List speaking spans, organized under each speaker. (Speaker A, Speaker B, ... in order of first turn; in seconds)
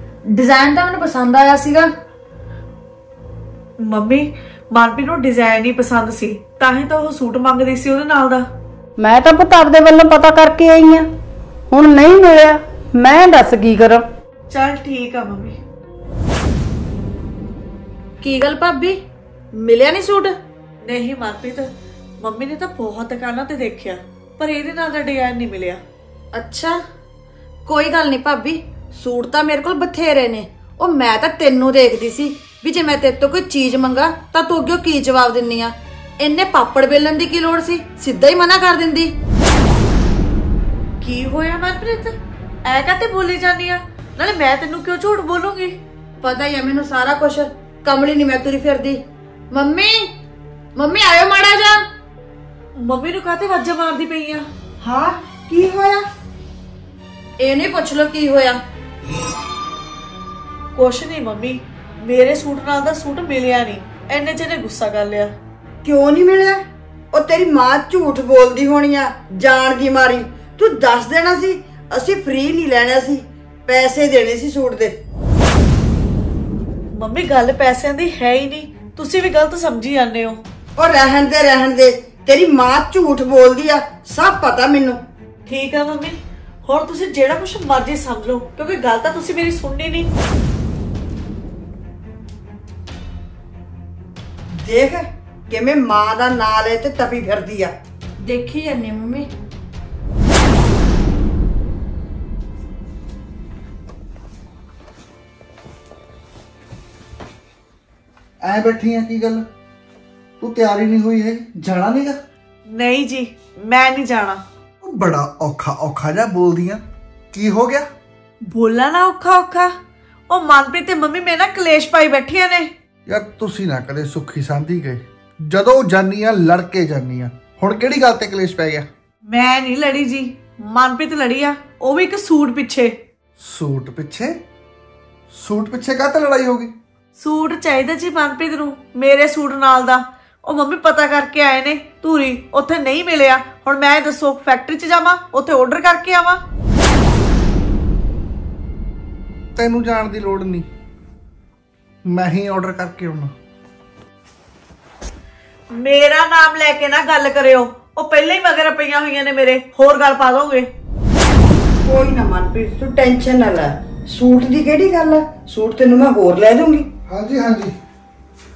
Speaker A: 0.3-1.9, 18.2-19.0, 19.5-20.3, 26.3-26.8, 27.7-39.1, 46.2-50.1, 50.8-51.8, 57.4-58.6, 98.2-99.3
Speaker B: 3.8-8.4, 14.5-15.6, 20.8-25.8, 41.0-42.1, 42.7-45.8, 52.8-54.4, 60.7-65.3, 76.9-80.4, 85.5-90.1, 112.7-114.4, 118.5-119.7, 120.3-122.7, 129.3-133.0, 137.2-146.4, 155.8-160.7
Speaker C: 9.0-11.1, 11.7-14.1
Speaker D: 54.8-56.0, 65.8-66.6, 67.1-74.9, 80.8-85.0, 94.6-97.7, 161.8-166.9
Speaker E: 108.4-109.4, 110.4-112.2, 114.8-116.8, 117.3-117.8, 123.1-128.8, 133.4-134.4, 135.3-136.7, 149.6-150.7, 152.1-153.3, 167.1-167.7